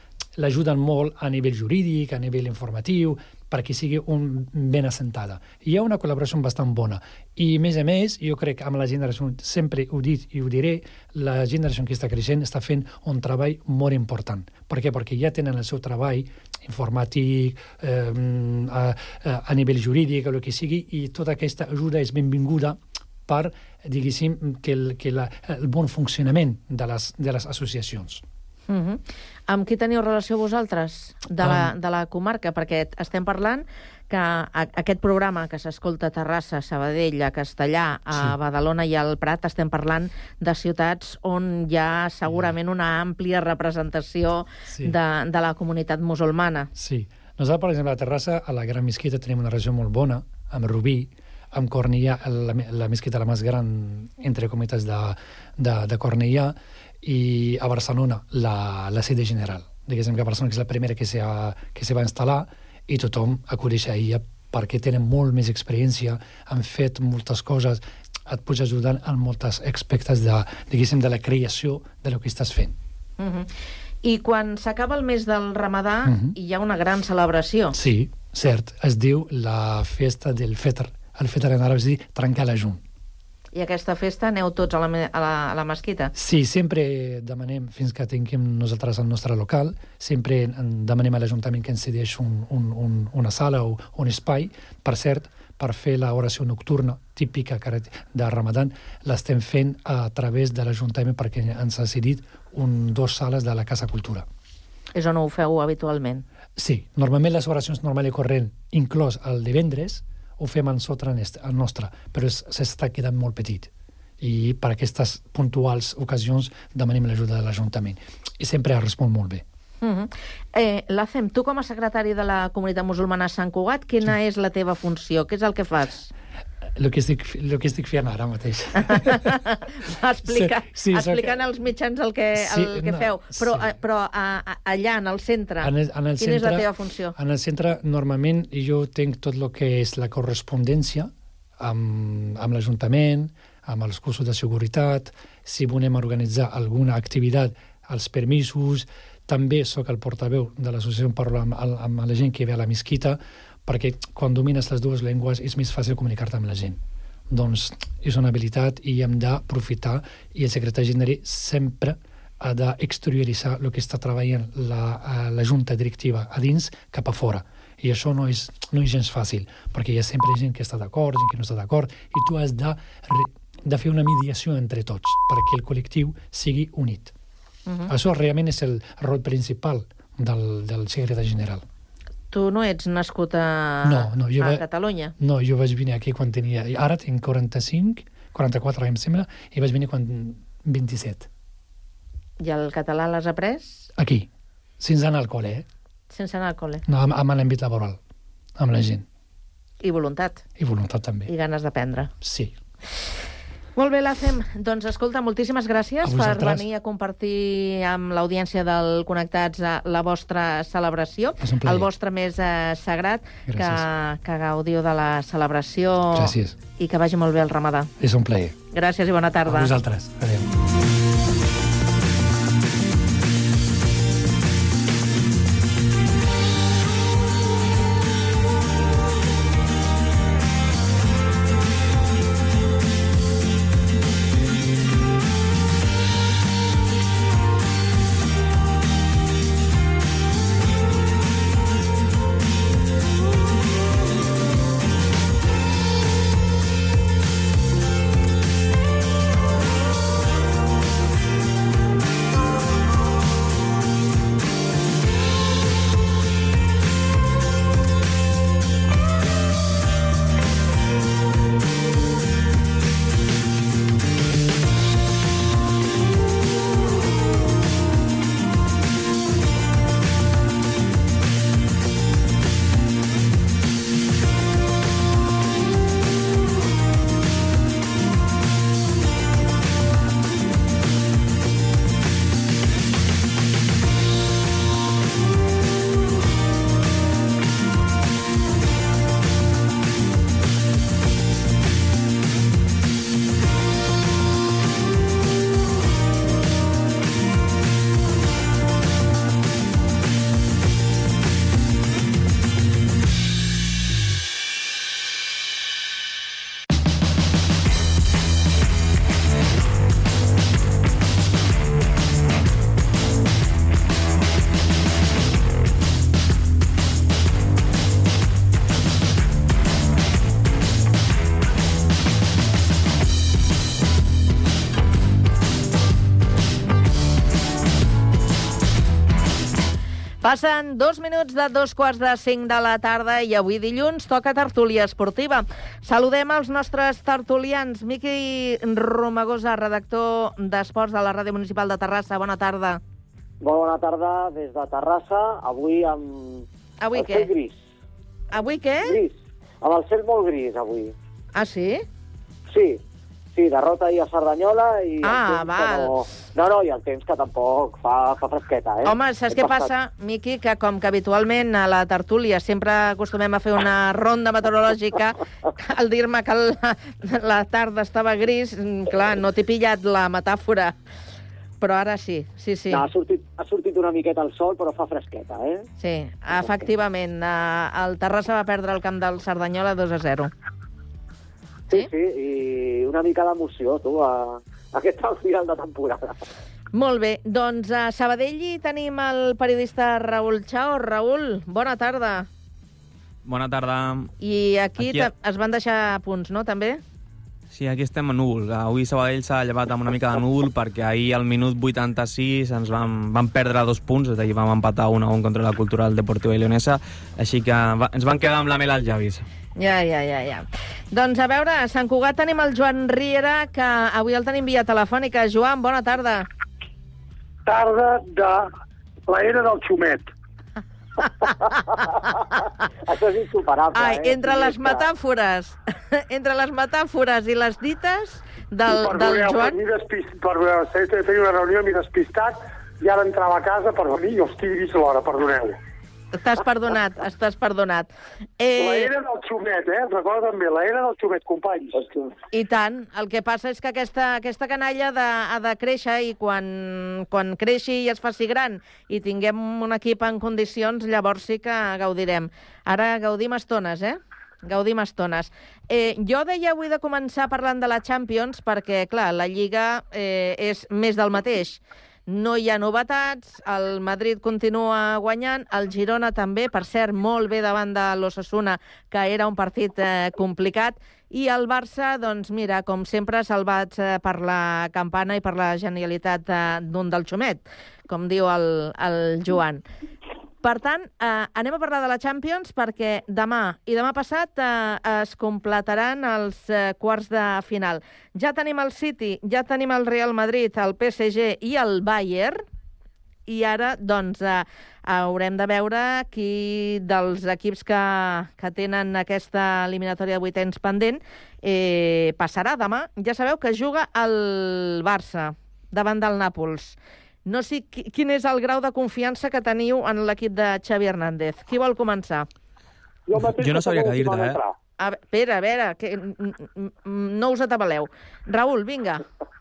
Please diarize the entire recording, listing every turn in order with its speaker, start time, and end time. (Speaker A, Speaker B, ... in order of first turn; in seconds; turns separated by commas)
Speaker A: 0.4-28.2, Speaker B: 28.7-46.7, Speaker A: 31.4-31.7, Speaker A: 42.2-42.5, Speaker A: 44.7-45.0, Speaker A: 46.7-72.7, Speaker B: 73.2-73.5, Speaker B: 74.0-77.7, Speaker A: 76.0-76.3, Speaker A: 77.7-82.8, Speaker B: 83.5-86.1, Speaker A: 86.1-104.2, Speaker B: 104.9-106.2, Speaker A: 106.5-119.4, Speaker B: 119.8-126.1, Speaker A: 126.7-129.3, Speaker B: 128.9-137.1, Speaker A: 130.2-131.4, Speaker A: 132.3-133.7, Speaker A: 135.6-156.8, Speaker A: 157.3-177.1, Speaker A: 177.9-181.7, Speaker B: 182.3-185.1, Speaker A: 183.8-184.6, Speaker A: 185.2-191.3, Speaker B: 192.4-193.9, Speaker A: 193.9-194.3, Speaker A: 194.8-195.7, Speaker B: 196.1-196.8, Speaker A: 196.9-198.0, Speaker A: 198.6-199.1, Speaker B: 199.8-200.4, Speaker A: 200.6-201.3, Speaker B: 201.3-202.1, Speaker A: 202.2-202.6, Speaker B: 203.8-217.9, Speaker A: 206.0-206.6, Speaker A: 211.4-211.9, Speaker A: 213.5-213.8, Speaker A: 216.1-216.6, Speaker A: 218.0-218.6, Speaker B: 218.7-219.7, Speaker A: 219.4-220.5, Speaker B: 330.2-342.8, Speaker C: 343.4-347.6, Speaker B: 346.8-347.3, Speaker B: 348.3-349.0, Speaker C: 348.8-350.9, Speaker B: 351.3-351.8, Speaker C: 352.5-352.8, Speaker C: 353.3-359.7, Speaker B: 355.0-355.9, Speaker B: 358.8-370.7, Speaker B: 371.6-372.8, Speaker C: 372.7-375.7, Speaker B: 375.8-380.3, Speaker C: 381.7-386.2, Speaker B: 386.7-392.3, Speaker D: 393.2-394.1, Speaker B: 394.2-396.8, Speaker D: 394.8-395.1, Speaker D: 397.5-409.2, Speaker B: 409.6-416.3, Speaker E: 417.4-418.5, Speaker E: 419.1-420.1, Speaker C: 422.9-424.9, Speaker B: 423.7-429.6, Speaker E: 428.6-435.6, Speaker B: 436.1-438.9, Speaker E: 438.6-441.8, Speaker B: 442.3-479.6, Speaker B: 480.4-492.4, Speaker B: 493.3-512.3, Speaker E: 513.1-514.5, Speaker D: 513.1-514.4, Speaker B: 514.8-519.0